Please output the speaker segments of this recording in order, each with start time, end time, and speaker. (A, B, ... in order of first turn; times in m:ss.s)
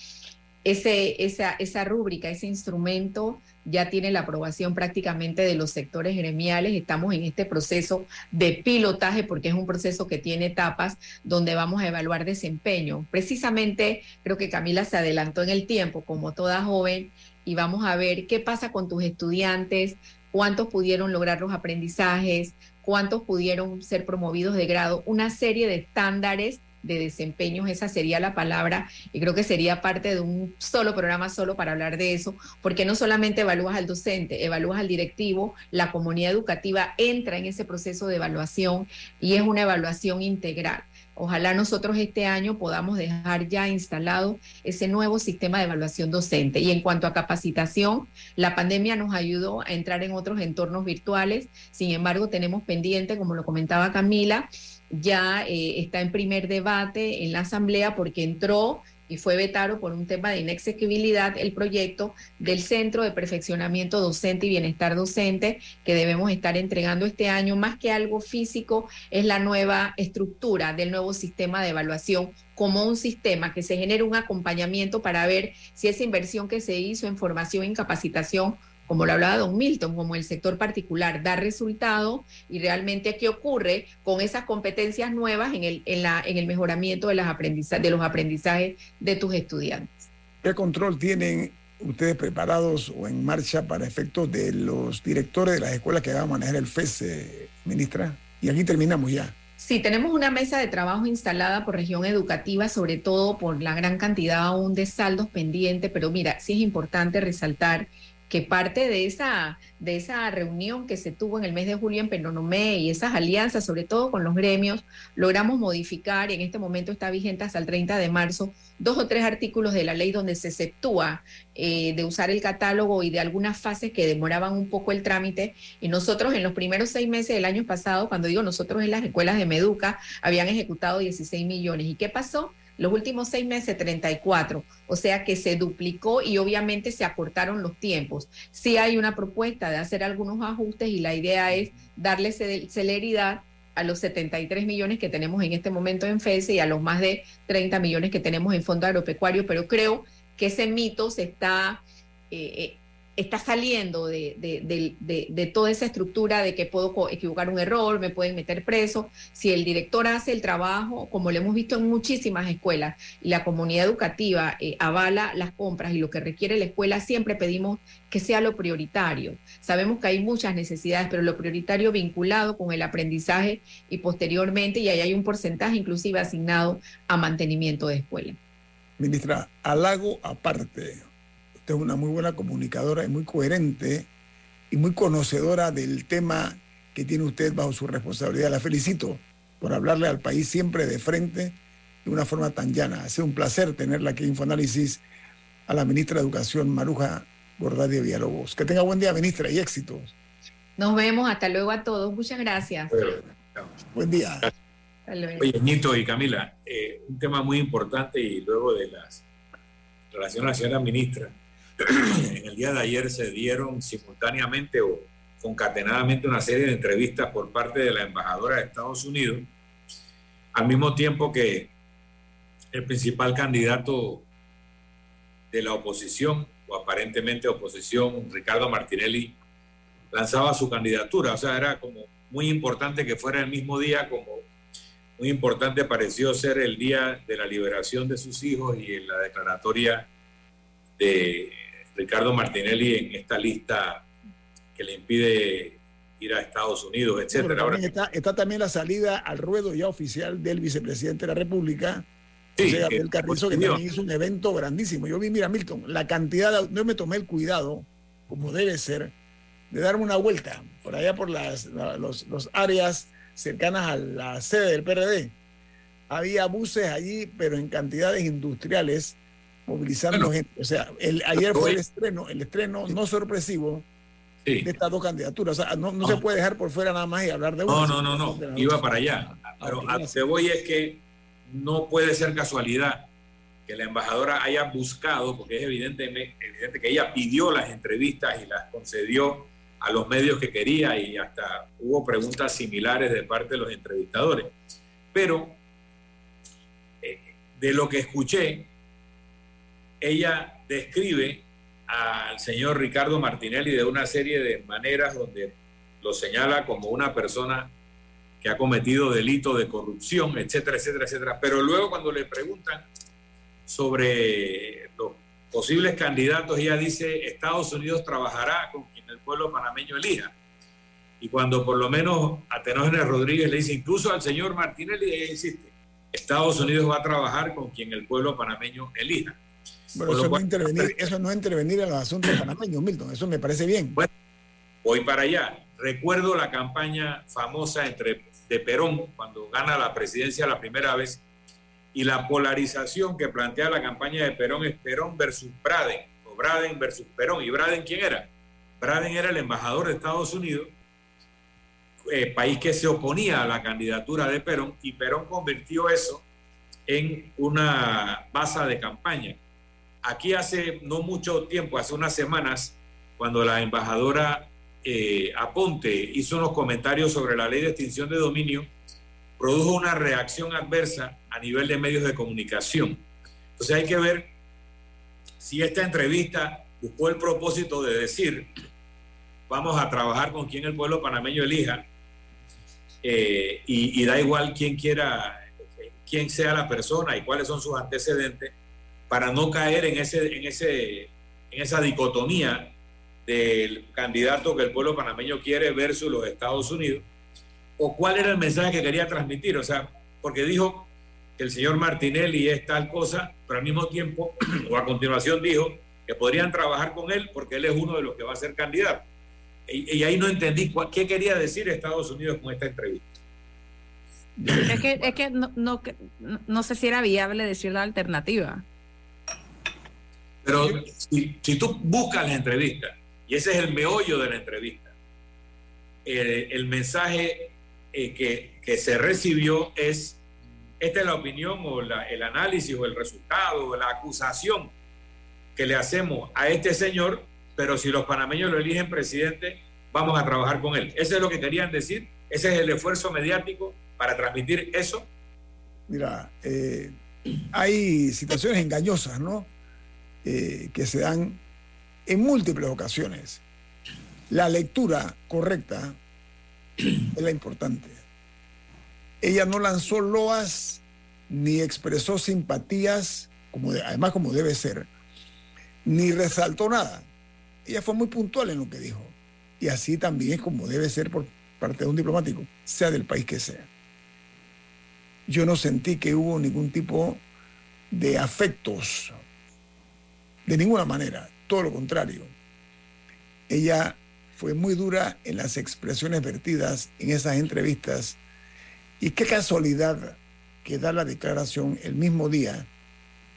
0:00.6-1:30.0 A
1:30.4-1:39.3 B
1:39.6-2:58.4 A
2:59.0-3:01.1 B
3:01.6-3:04.1 B
3:04.7-3:15.0 B
3:15.7-3:20.1 B
3:20.8-3:22.9 A
3:22.9-3:23.7 C
3:23.9-3:24.5 B
3:25.1-3:25.5 A
3:25.4-3:29.2 C
3:30.1-3:39.5 C
3:40.5-3:41.7 C
3:42.7-3:44.2 C
3:45.5-3:49.4 C
3:50.1-3:54.5 C
3:55.2-4:00.1 C
4:01.0-4:04.0 C
4:04.8-4:07.9 C
4:07.3-4:12.0 B
4:12.6-4:13.8 C
4:12.6-4:19.1 B
4:19.7-4:25.3 B
4:26.1-4:33.8 B
4:31.4-4:31.8 C
4:34.6-4:40.2 B
4:37.7-4:43.1 C
4:43.7-4:54.5 C
4:55.1-4:55.6 C
4:57.0-4:58.7 C
5:00.0-5:07.7 C
5:08.4-5:12.9 C
5:13.7-5:20.3 C
5:21.2-5:29.4 C
5:29.9-5:34.0 B
5:30.0-5:31.1 C
5:34.8-5:41.2 C
5:41.9-5:50.7 C
5:52.1-5:56.2 C
5:56.9-5:59.4 C
6:00.0-6:08.7 C
6:09.4-6:13.0 C
6:13.6-6:14.3 C
6:15.4-6:18.5 C
6:19.5-6:21.8 C
6:23.0-6:28.5 C
6:29.1-6:32.7 C
6:33.2-6:37.0 C
6:37.8-6:49.0 C
6:49.7-6:53.0 C
6:54.4-6:55.1 B
6:54.6-6:58.6 D
7:00.4-7:04.9 C
7:06.0-7:10.2 C
7:10.8-7:14.7 C
7:15.6-7:25.1 C
7:25.9-7:26.9 B
7:27.5-7:29.5 B
7:30.2-7:31.4 B
7:32.0-7:33.4 B
7:34.3-7:36.0 B
7:37.1-7:38.0 B
7:39.2-7:44.9 B
7:45.8-7:47.1 B
7:47.6-7:53.7 B
7:55.3-7:57.2 B
7:57.9-7:59.2 B
8:00.4-8:02.3 B
8:03.5-8:08.2 B
8:09.0-8:12.7 B